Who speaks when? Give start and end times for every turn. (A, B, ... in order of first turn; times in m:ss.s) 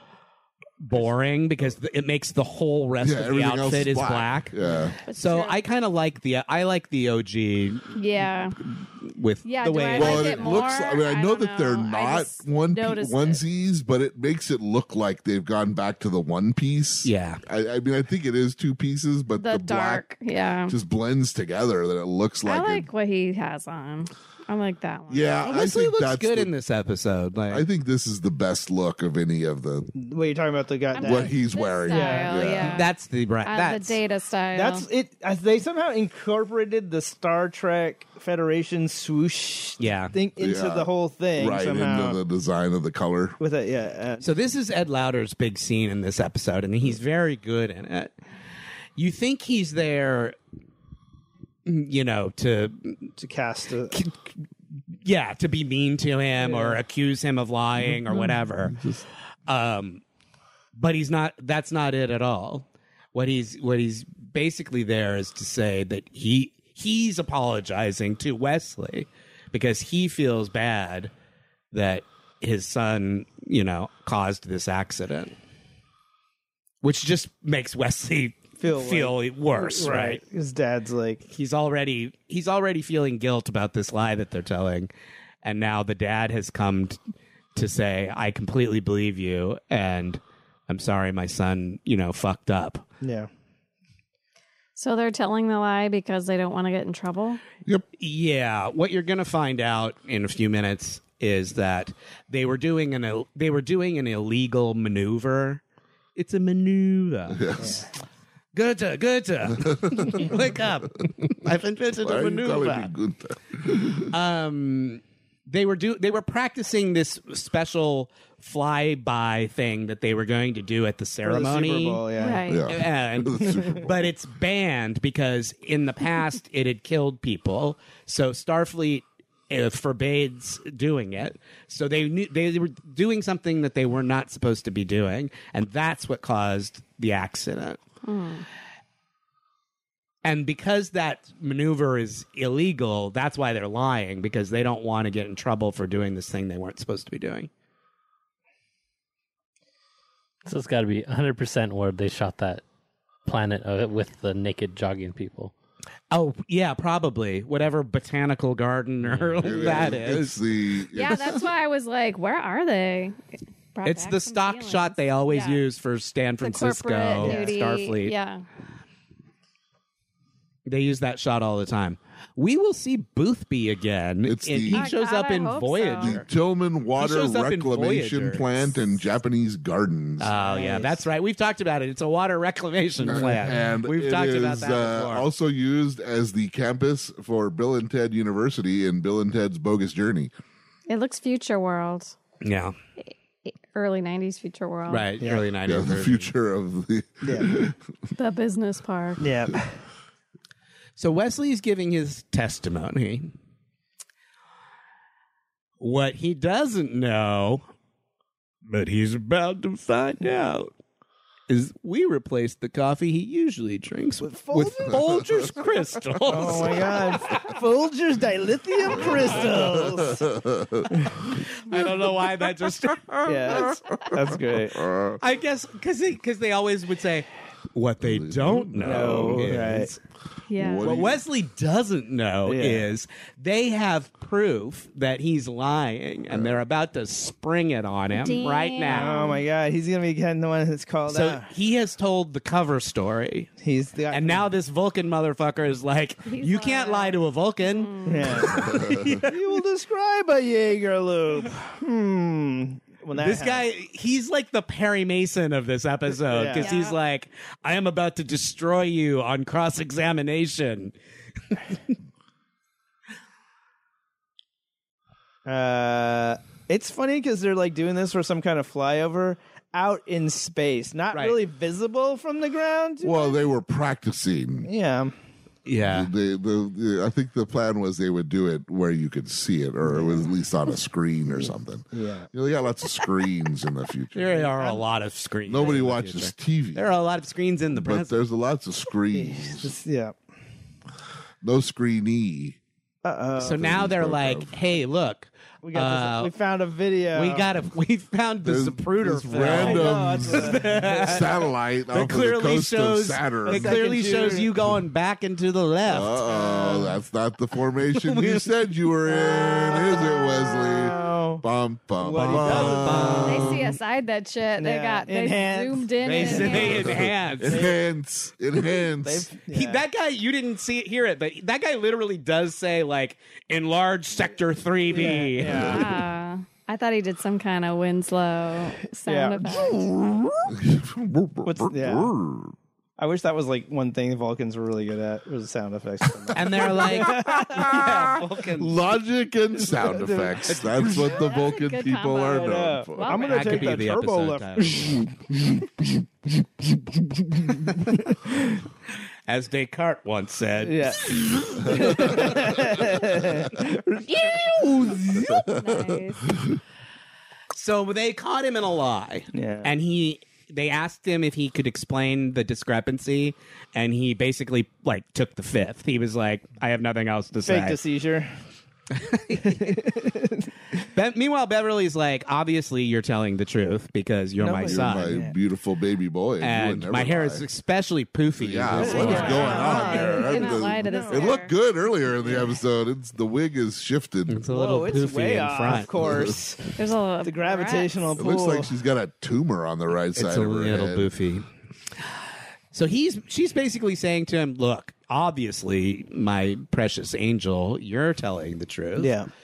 0:00.8-0:04.6 A
0:03.0-0:05.0 B
0:05.1-0:05.6 C
0:05.1-0:08.0 A
0:08.0-0:08.6 C
0:08.6-0:10.6 A
0:09.4-0:13.4 C
0:09.9-0:20.0 B
0:17.0-0:17.4 A
0:19.4-0:20.7 C
0:20.7-0:22.9 B
0:22.4-0:25.5 C
0:25.1-0:26.5 B
0:25.4-0:27.6 A
0:27.5-0:29.9 B
0:29.9-0:31.4 D
0:30.9-0:32.9 C
0:31.0-0:32.8 B
0:31.9-0:32.5 D
0:32.6-0:34.0 A
0:33.4-0:34.8 C
0:34.5-0:42.2 D
0:39.8-0:40.2 A
0:40.4-0:43.4 B
0:43.4-0:44.2 D
0:44.2-0:48.1 A
0:49.0-0:50.4 A
0:51.6-0:53.1 A
0:53.2-0:54.0 D
0:53.9-0:54.3 A
0:55.0-0:58.8 A
0:56.4-0:56.8 D
0:57.8-0:59.0 B
0:59.5-1:00.0 A
1:00.8-1:11.1 A
1:11.7-1:15.3 A
1:16.8-1:20.2 A
1:18.6-1:21.2 D
1:21.3-1:24.9 A
1:25.4-1:27.0 A
1:27.5-1:32.8 A
1:33.0-1:33.3 D
1:34.8-1:37.4 C
1:38.0-1:45.6 A
1:46.2-1:47.8 A
1:47.3-1:47.8 B
1:47.6-1:47.9 D
1:48.5-1:52.9 A
1:49.5-1:50.3 B
1:52.0-1:54.1 B
1:54.1-2:02.0 A
2:01.2-2:02.5 D
2:02.2-2:02.6 C
2:02.5-2:03.9 B
2:02.6-2:17.8 A
2:18.0-2:18.4 C
2:20.2-2:27.5 A
2:30.4-2:32.6 E
2:33.2-2:35.5 E
2:36.1-2:40.4 A
2:39.0-2:39.5 E
2:39.4-2:41.4 B
2:40.9-2:43.2 C
2:43.7-2:45.6 C
2:43.8-2:48.1 A
2:46.4-2:48.4 C
2:47.2-2:47.5 D
2:50.6-2:56.2 A
2:54.2-2:54.9 B
2:54.7-2:56.2 C
2:56.0-3:00.3 B
2:57.0-2:58.7 A
3:00.2-3:05.2 A
3:00.3-3:01.0 D
3:03.0-3:10.3 B
3:10.9-3:12.1 C
3:12.4-3:12.7 A
3:13.4-3:15.1 C
3:14.9-3:16.3 A
3:15.6-3:17.8 B
3:17.2-3:17.5 D
3:18.2-3:19.3 C
3:19.2-3:19.7 D
3:21.0-3:23.3 A
3:25.8-3:27.6 A
3:28.6-3:30.7 A
3:31.5-3:37.6 A
3:34.2-3:35.0 D
3:36.3-3:40.2 D
3:38.9-3:39.5 A
3:39.6-3:40.9 B
3:40.9-3:41.2 D
3:41.2-3:43.8 A
3:43.2-3:44.9 D
3:44.7-3:45.2 B
3:45.2-3:50.0 A
3:48.0-3:49.6 B
3:48.8-3:49.9 D
3:50.5-3:51.0 C
3:50.5-3:51.2 B
3:50.8-3:59.3 A
3:52.4-3:52.9 D
3:56.3-3:56.6 B
3:58.1-3:59.4 C
3:58.8-4:01.5 D
4:01.1-4:03.5 A
4:03.6-4:04.5 D
4:04.1-4:09.6 A
4:06.2-4:08.6 C
4:08.0-4:13.6 D
4:08.5-4:09.1 B
4:13.2-4:20.9 A
4:16.3-4:16.7 D
4:16.6-4:17.0 C
4:21.5-4:21.9 A
4:25.4-4:33.4 D
4:31.1-4:31.4 A
4:33.0-4:34.7 B
4:34.6-4:35.1 D
4:35.6-4:36.1 A
4:35.8-4:44.4 B
4:39.8-4:40.3 D
4:41.9-4:42.3 D
4:44.1-4:48.2 A
4:44.3-4:44.8 D
4:45.5-4:46.8 B
4:47.7-4:49.7 B
4:49.1-4:50.2 D
4:51.4-4:52.6 B
4:53.0-4:53.6 D
4:53.4-4:56.3 A
4:53.6-4:54.5 B
4:55.6-4:57.5 D
4:57.1-5:01.3 A
4:58.4-5:04.4 B
4:59.3-5:01.2 D
5:01.9-5:06.2 A
5:03.4-5:04.5 D
5:05.9-5:13.7 B
5:06.3-5:07.0 D
5:07.9-5:08.5 A
5:09.3-5:10.0 D
5:10.6-5:11.4 D
5:12.0-5:13.3 D
5:12.1-5:13.6 A
5:13.2-5:17.0 C
5:14.6-5:17.8 D
5:16.0-5:17.7 A
5:16.5-5:19.3 B
5:18.9-5:19.8 D
5:19.5-5:25.9 A
5:24.9-5:25.9 D
5:25.5-5:29.8 C
5:29.0-5:30.4 D
5:30.5-5:32.5 B
5:31.4-5:32.1 D
5:33.0-5:37.9 D
5:36.3-5:43.2 B
5:36.3-5:38.8 A
5:39.7-5:41.1 D
5:40.5-5:40.8 A
5:41.0-5:43.7 C
5:42.3-5:45.9 D
5:43.1-5:45.0 A
5:47.7-5:48.1 A
5:49.3-5:53.0 A
5:50.6-5:55.3 D
5:55.0-5:56.6 B
5:55.2-5:56.4 C
5:57.5-6:07.8 A
5:59.3-5:59.7 D
6:07.4-6:08.3 D
6:08.9-6:09.9 A
6:09.5-6:10.5 D
6:10.8-6:15.2 A
6:14.4-6:15.4 D
6:14.6-6:17.4 B
6:16.4-6:19.9 A
6:18.4-6:24.5 B
6:18.8-6:21.4 D
6:18.8-6:21.5 C
6:22.2-6:22.5 D
6:24.3-6:25.9 A
6:24.5-6:26.7 D
6:25.9-6:26.4 B
6:26.8-6:28.1 C
6:27.2-6:28.7 D
6:28.2-6:31.1 B
6:30.2-6:31.4 A
6:32.7-6:39.2 A
6:39.0-6:39.3 D